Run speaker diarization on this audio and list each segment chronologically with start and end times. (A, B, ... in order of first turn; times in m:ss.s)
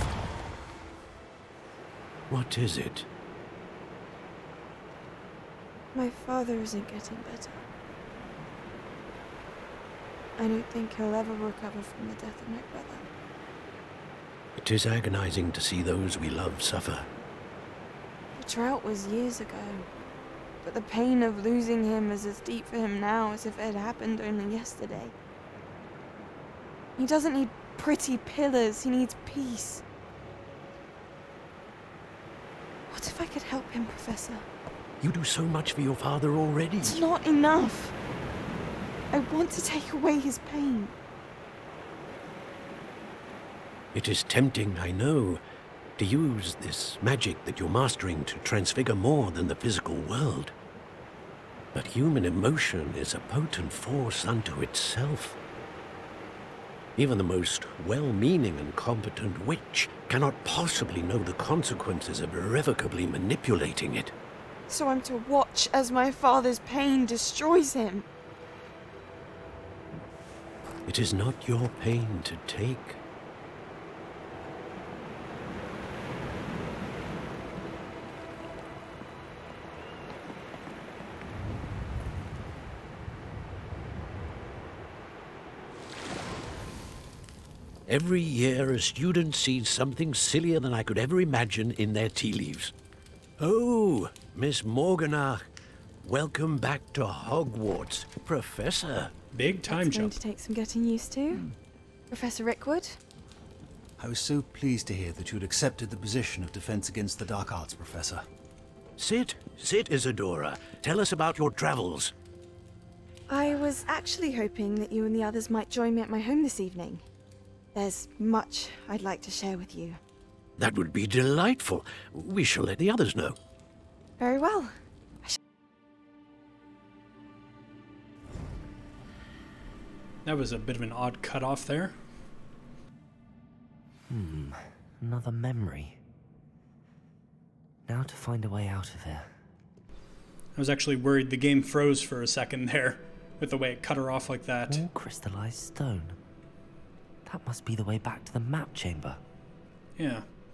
0:02.3-0:03.1 A
0:05.9-0:07.6 B
0:10.4-0:13.1 B
0:14.6-0:17.1 A
0:18.4-0:19.9 B
0:20.6-0:25.2 B
0:27.0-0:29.8 B
0:32.9-0:34.5 B
0:35.0-0:37.0 A
0:36.8-0:38.0 B
0:39.1-0:40.9 B
0:43.9-0:45.4 A
0:46.0-0:50.5 A
0:51.7-0:55.4 A
0:57.0-1:04.1 A
1:04.7-1:08.1 B
1:10.9-1:13.0 A
1:27.9-1:32.7 A
1:33.4-1:35.4 A
1:36.0-1:39.1 A
1:39.3-1:40.2 C
1:39.7-1:41.5 B
1:42.1-1:43.0 B
1:44.0-1:48.3 D
1:49.0-1:52.1 A
1:53.3-1:57.1 B
1:57.7-2:00.0 B
2:00.6-2:03.4 A
2:04.2-2:05.4 B
2:10.2-2:12.0 C
2:14.1-2:16.0 E
2:17.9-2:19.3 E
2:20.6-2:24.8 C
2:24.7-2:26.2 E
2:27.2-2:29.2 E
2:30.0-2:30.3 C